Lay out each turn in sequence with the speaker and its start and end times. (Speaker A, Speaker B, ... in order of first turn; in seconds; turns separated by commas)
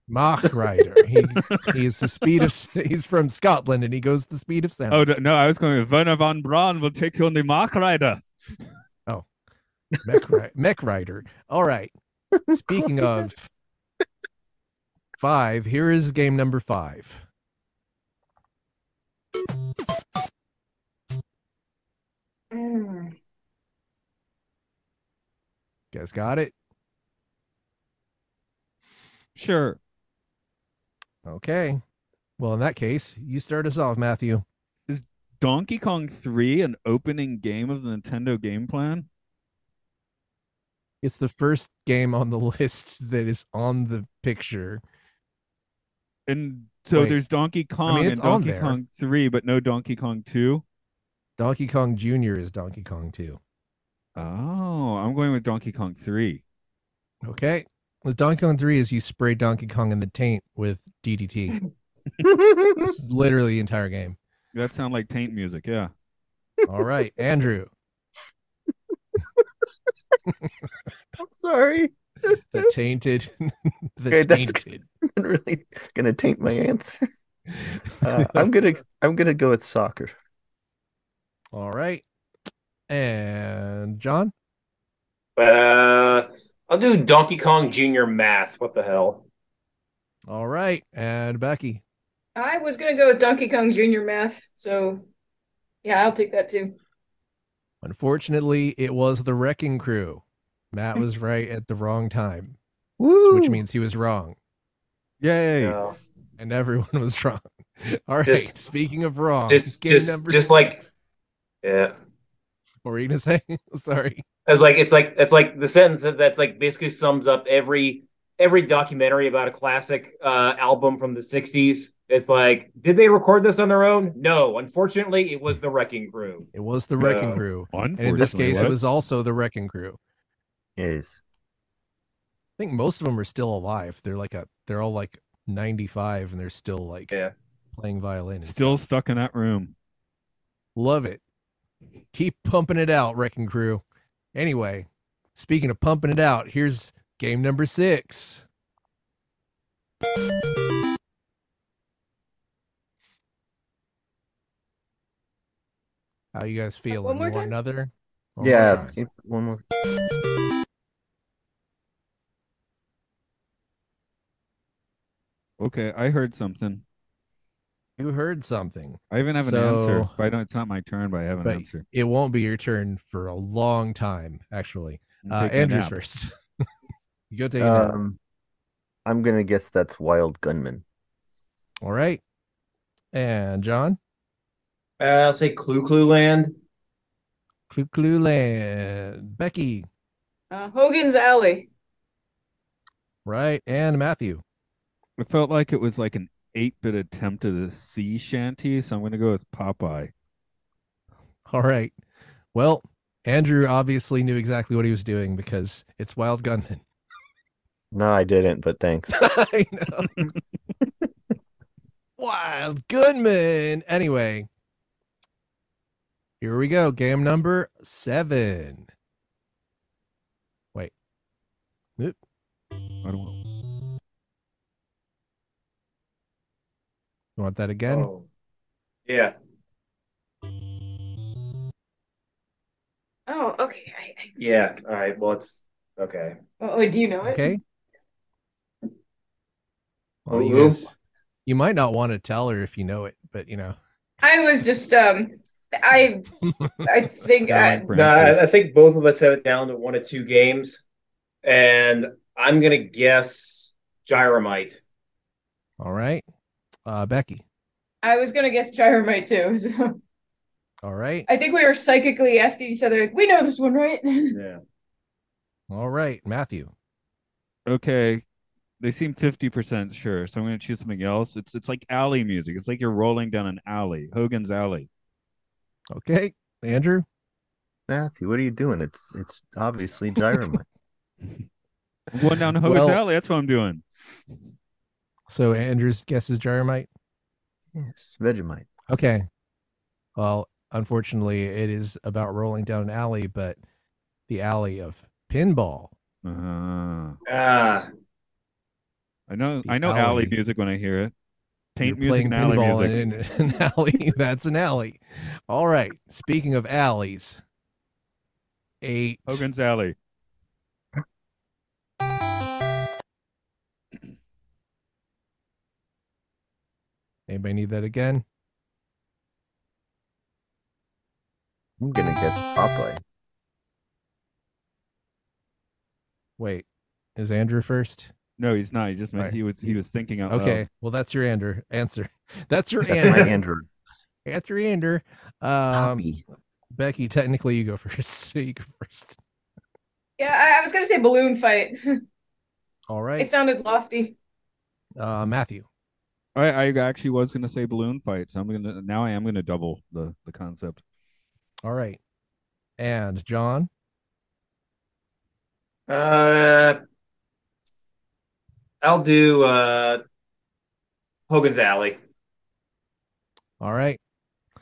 Speaker A: 0.1-5.0, Speaker B: 1.4-1.8, Speaker B: 4.9-8.2, Speaker A: 10.0-11.9, Speaker C: 12.5-13.1, Speaker A: 12.5-13.5, Speaker A: 15.2-17.2, Speaker D: 22.5-23.1, Speaker A: 25.9-26.5, Speaker B: 29.4-29.8, Speaker A: 31.3-31.8, Speaker A: 32.4-34.5, Speaker B: 34.9-39.1, Speaker A: 41.0-44.8, Speaker B: 46.3-50.6, Speaker A: 47.9-48.8, Speaker A: 51.4-53.4, Speaker B: 54.2-56.4, Speaker A: 57.2-61.6, Speaker C: 62.2-62.9, Speaker A: 62.8-64.2, Speaker B: 64.5-65.9, Speaker A: 66.7-67.7, Speaker C: 71.2-72.7, Speaker A: 72.5-74.9, Speaker C: 74.1-77.1, Speaker A: 77.6-78.5, Speaker C: 78.0-80.1, Speaker A: 81.5-82.0, Speaker A: 82.9-84.3, Speaker E: 85.4-89.2, Speaker A: 90.3-91.8, Speaker D: 92.4-95.1, Speaker D: 95.8-96.8, Speaker A: 97.8-102.6, Speaker C: 103.0-103.6, Speaker A: 103.2-104.4, Speaker B: 105.2-105.8, Speaker E: 105.6-106.0, Speaker A: 106.4-110.5, Speaker E: 108.3-108.5, Speaker E: 109.5-110.8, Speaker E: 111.6-111.9, Speaker A: 112.8-114.2, Speaker E: 114.5-126.5, Speaker A: 126.5-130.0, Speaker E: 127.0-127.4, Speaker B: 127.7-128.8, Speaker C: 130.8-131.2, Speaker A: 132.6-137.1, Speaker A: 137.7-138.7, Speaker B: 138.4-139.7, Speaker A: 140.8-141.2, Speaker A: 142.1-143.8, Speaker A: 144.3-148.4, Speaker A: 156.3-158.9, Speaker D: 156.9-157.5, Speaker C: 158.4-159.6, Speaker B: 165.6-166.8, Speaker A: 168.0-170.1, Speaker B: 169.1-171.8, Speaker A: 171.4-176.3, Speaker B: 175.2-175.9, Speaker A: 177.3-177.9, Speaker C: 177.6-178.2, Speaker C: 179.1-180.8, Speaker A: 181.8-182.2, Speaker A: 183.1-184.0, Speaker E: 185.0-186.5, Speaker A: 187.7-189.9, Speaker D: 190.5-191.7, Speaker A: 193.2-194.4, Speaker B: 195.2-200.1, Speaker A: 201.5-201.9, Speaker A: 202.5-206.8, Speaker C: 207.9-209.2, Speaker A: 209.1-210.1, Speaker A: 212.2-214.5, Speaker A: 216.4-218.9, Speaker B: 223.0-223.4, Speaker A: 227.4-228.1, Speaker E: 227.9-228.2, Speaker E: 229.1-229.3, Speaker D: 233.3-234.3, Speaker E: 234.4-236.4, Speaker D: 236.6-237.6, Speaker A: 237.2-237.6, Speaker A: 240.3-240.9, Speaker E: 240.3-240.9, Speaker A: 241.5-243.8, Speaker D: 244.2-246.3, Speaker D: 246.8-247.9, Speaker B: 247.5-248.4, Speaker E: 247.9-250.8, Speaker E: 251.4-254.8, Speaker A: 255.8-256.2, Speaker A: 256.9-257.4, Speaker D: 258.0-260.0, Speaker A: 260.8-261.3, Speaker D: 261.3-264.4, Speaker E: 264.3-264.6, Speaker A: 265.7-266.7, Speaker B: 267.7-268.2, Speaker B: 268.8-274.9, Speaker A: 275.9-277.1, Speaker C: 277.9-280.7, Speaker B: 282.1-283.8, Speaker A: 282.6-283.0, Speaker A: 285.3-286.9, Speaker C: 287.7-288.7, Speaker A: 288.9-289.3, Speaker A: 290.2-293.6, Speaker A: 294.3-295.9, Speaker B: 296.2-297.2, Speaker E: 297.3-297.9, Speaker B: 299.3-301.1, Speaker A: 299.6-300.4, Speaker B: 301.8-303.1, Speaker A: 301.8-307.4, Speaker A: 308.8-309.4, Speaker B: 309.3-310.0, Speaker A: 317.3-318.2, Speaker C: 321.8-323.0, Speaker A: 326.4-326.6, Speaker A: 327.2-328.1, Speaker B: 328.4-330.6, Speaker A: 330.3-333.4, Speaker C: 332.9-333.7, Speaker A: 334.2-336.1, Speaker C: 335.7-336.2, Speaker A: 336.7-339.2, Speaker D: 340.2-341.8, Speaker A: 342.9-343.3, Speaker D: 343.2-344.2, Speaker A: 345.0-345.7, Speaker B: 346.4-350.8, Speaker A: 351.6-352.0, Speaker A: 352.8-353.7, Speaker E: 355.9-356.8, Speaker E: 358.8-360.0, Speaker E: 361.3-362.0, Speaker A: 363.6-364.0